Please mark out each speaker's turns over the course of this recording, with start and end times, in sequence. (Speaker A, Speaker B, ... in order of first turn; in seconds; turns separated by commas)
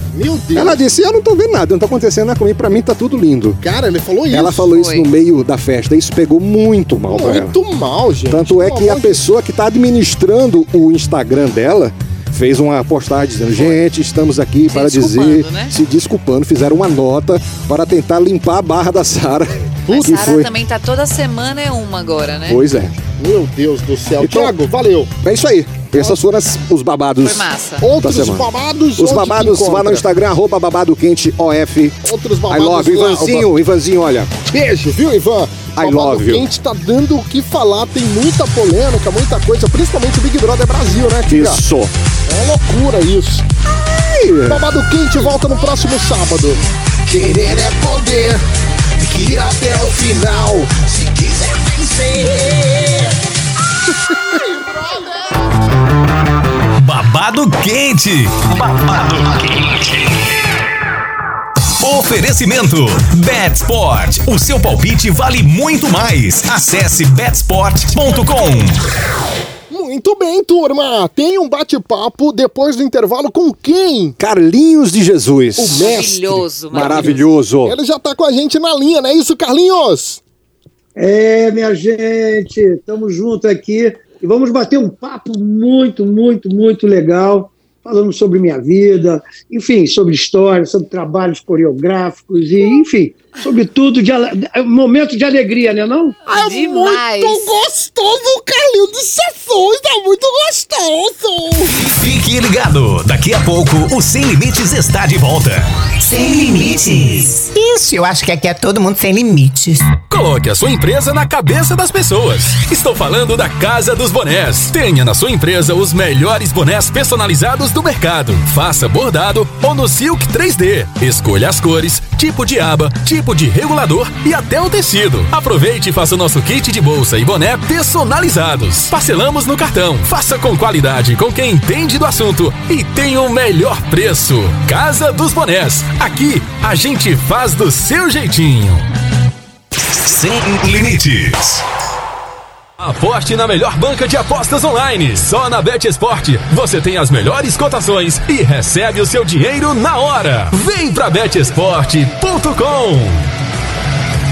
Speaker A: 0.1-0.8, Speaker B: 0.5-3.6, Speaker A: 3.6-4.7, Speaker B: 4.3-7.6, Speaker C: 4.7-5.1, Speaker A: 7.1-9.2, Speaker B: 8.3-20.5, Speaker C: 14.7-15.7, Speaker A: 19.9-20.2, Speaker C: 19.9-22.6, Speaker B: 22.5-23.0, Speaker A: 23.2-25.1, Speaker B: 24.2-24.5, Speaker B: 25.2-27.5, Speaker C: 27.2-27.9, Speaker A: 27.8-30.0, Speaker B: 28.0-34.3, Speaker A: 32.0-33.5, Speaker A: 34.5-41.6, Speaker B: 35.8-36.5, Speaker B: 41.3-41.9, Speaker A: 42.3-43.5, Speaker B: 43.7-44.6, Speaker A: 44.5-48.4, Speaker A: 49.0-53.1, Speaker A: 54.3-55.5, Speaker D: 56.8-60.1, Speaker D: 61.8-68.9, Speaker A: 69.7-74.2, Speaker B: 74.2-76.0, Speaker A: 75.6-80.2, Speaker C: 75.7-77.3, Speaker B: 76.7-77.8, Speaker E: 81.0-96.2, Speaker A: 96.3-101.8, Speaker C: 96.3-97.5, Speaker D: 101.7-105.7, Speaker F: 106.0-109.9, Speaker G: 110.1-138.8, Speaker D: 139.9-141.6, Speaker G: 142.8-153.3